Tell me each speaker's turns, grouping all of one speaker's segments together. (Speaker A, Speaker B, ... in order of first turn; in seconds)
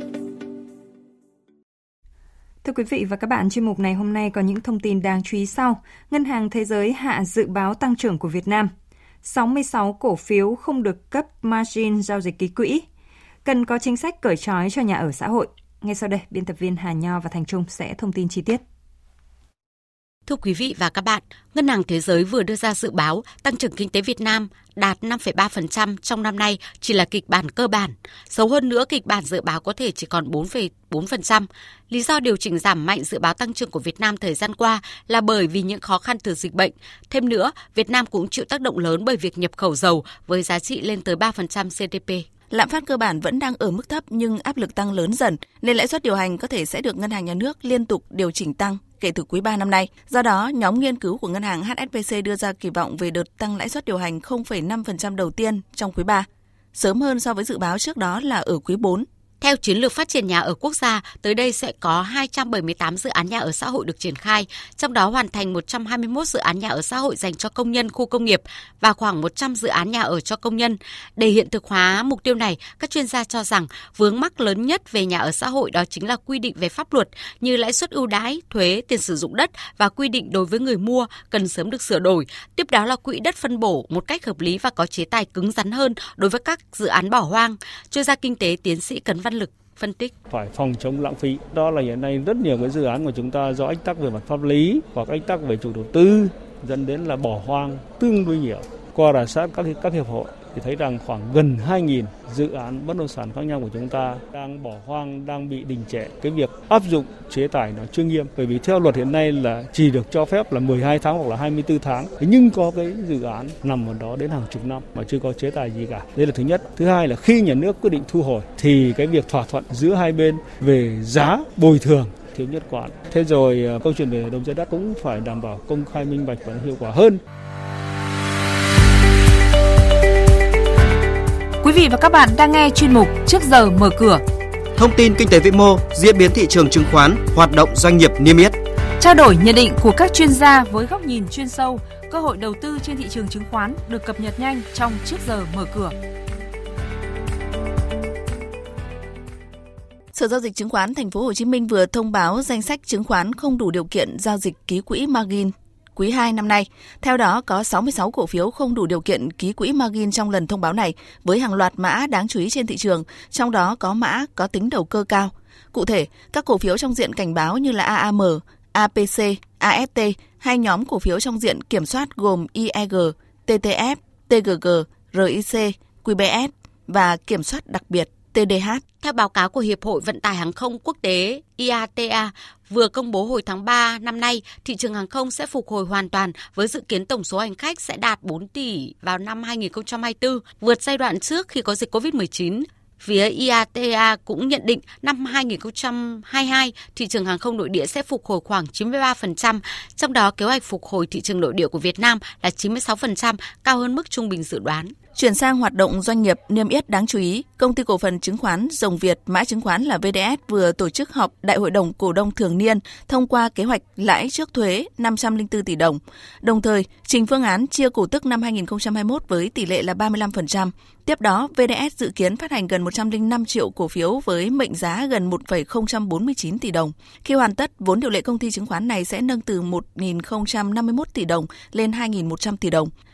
Speaker A: 2.6-8.7, 9.2-12.9, 13.4-18.6
Speaker B: 20.2-42.3, 59.4-90.1, 179.0-204.9
Speaker C: 42.5-59.1, 150.1-178.8, 205.1-232.9
Speaker D: 90.3-127.2
Speaker E: 131.6-134.2, 139.0-145.9
Speaker F: 134.8-138.6